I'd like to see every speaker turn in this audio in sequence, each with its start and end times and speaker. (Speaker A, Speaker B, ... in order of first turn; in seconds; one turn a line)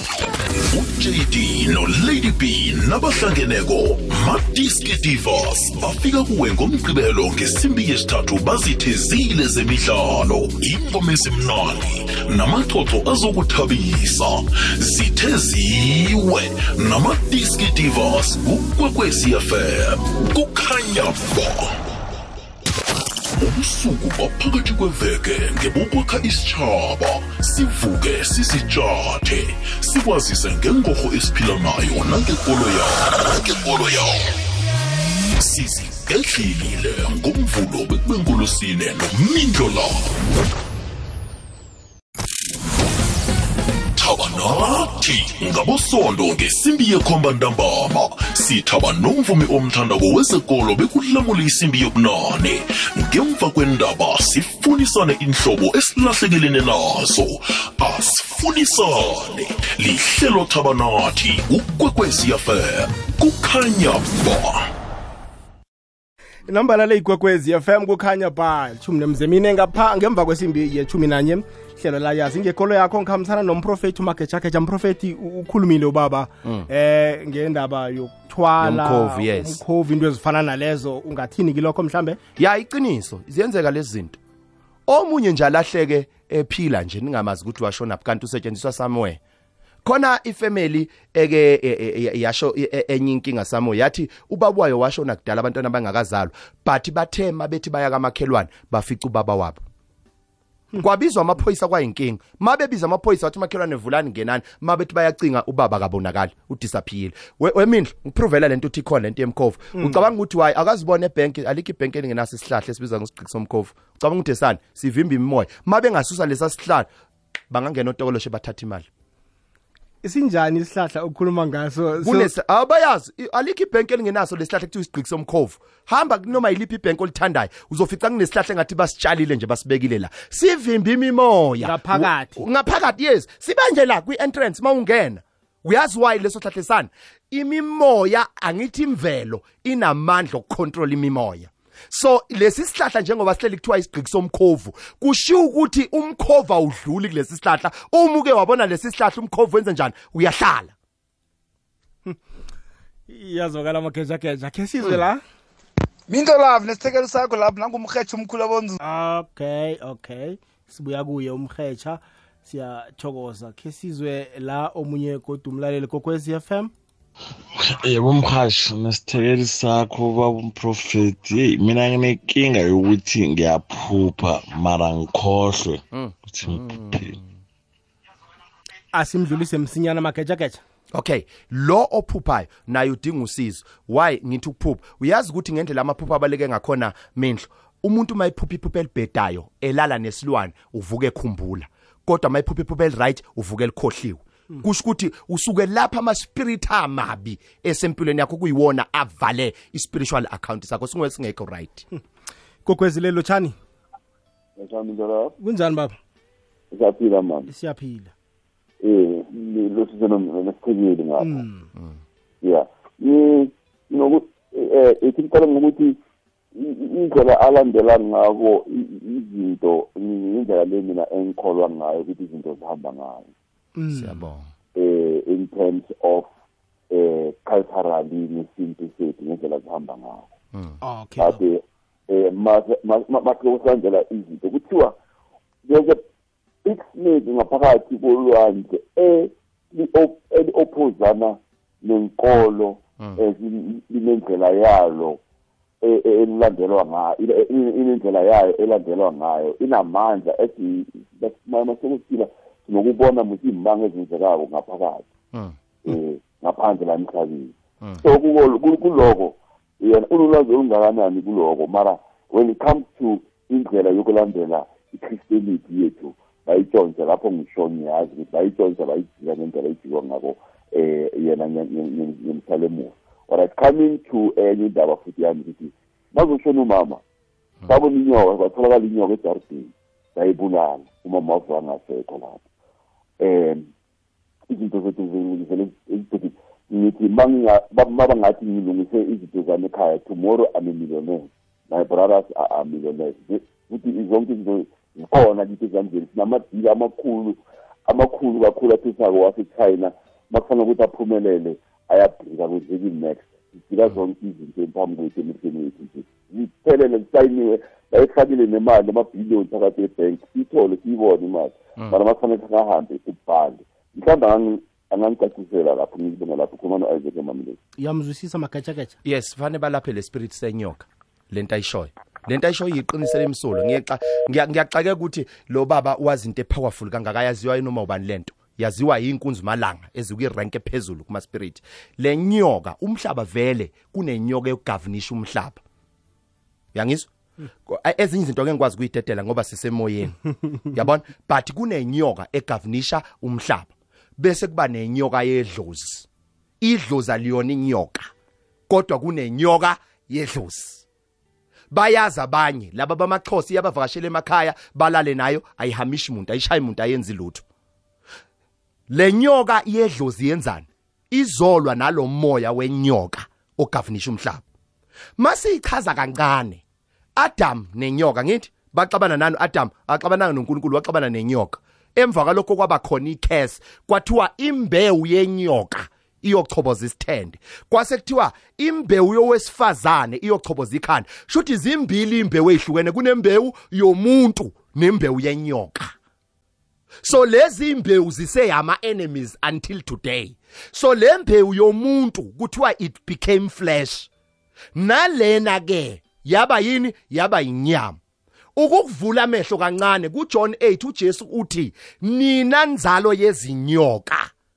Speaker A: 0.7-21.8
Speaker A: 23.3-34.3
Speaker A: 35.4-40.2
Speaker A: 44.0-64.7
Speaker B: 66.5-82.2
Speaker C: 76.4-76.7
Speaker C: 78.6-79.6
Speaker C: 82.4-84.2
Speaker C: 84.9-89.2
Speaker C: 89.8-99.6
Speaker C: 100.8-116.9
Speaker B: 109.7-110.0
Speaker C: 117.5-118.9
Speaker B: 120.0-122.3
Speaker C: 122.0-150.7
Speaker B: 131.6-132.4
Speaker B: 153.1-155.2
Speaker D: 156.1-158.8
Speaker B: 158.8-166.7
Speaker E: 167.6-177.2
Speaker C: 175.9-177.3
Speaker B: 178.9-180.6
Speaker C: 180.9-201.8
Speaker B: 202.6-203.6
Speaker F: 204.6-205.3
Speaker B: 205.4-205.9
Speaker F: 206.7-207.5
Speaker B: 207.5-208.1
Speaker F: 208.8-211.4
Speaker B: 211.2-211.7
Speaker C: 211.7-212.0
Speaker F: 212.4-215.9
Speaker F: 216.5-223.3
Speaker B: 223.8-224.2
Speaker C: 223.9-224.5
Speaker F: 224.7-226.3
Speaker F: 226.9-230.2
Speaker C: 230.5-230.8
Speaker B: 230.8-231.4
Speaker F: 231.2-234.9
Speaker F: 235.7-236.0
Speaker F: 236.6-245.2
Speaker F: 245.8-255.0
Speaker F: 255.8-277.0
Speaker F: 277.7-282.4
Speaker F: 283.2-283.7
Speaker F: 284.5-317.6
Speaker C: 311.8-312.0
Speaker B: 317.8-318.9
Speaker C: 319.0-335.6
Speaker C: 336.7-337.1
Speaker C: 337.6-340.2
Speaker C: 340.7-346.1
Speaker C: 346.6-348.1
Speaker C: 348.7-350.8
Speaker C: 351.7-357.4
Speaker C: 358.9-364.4
Speaker C: 365.2-366.6
Speaker C: 367.2-385.9
Speaker C: 387.0-394.1
Speaker C: 394.7-398.0
Speaker C: 398.6-404.3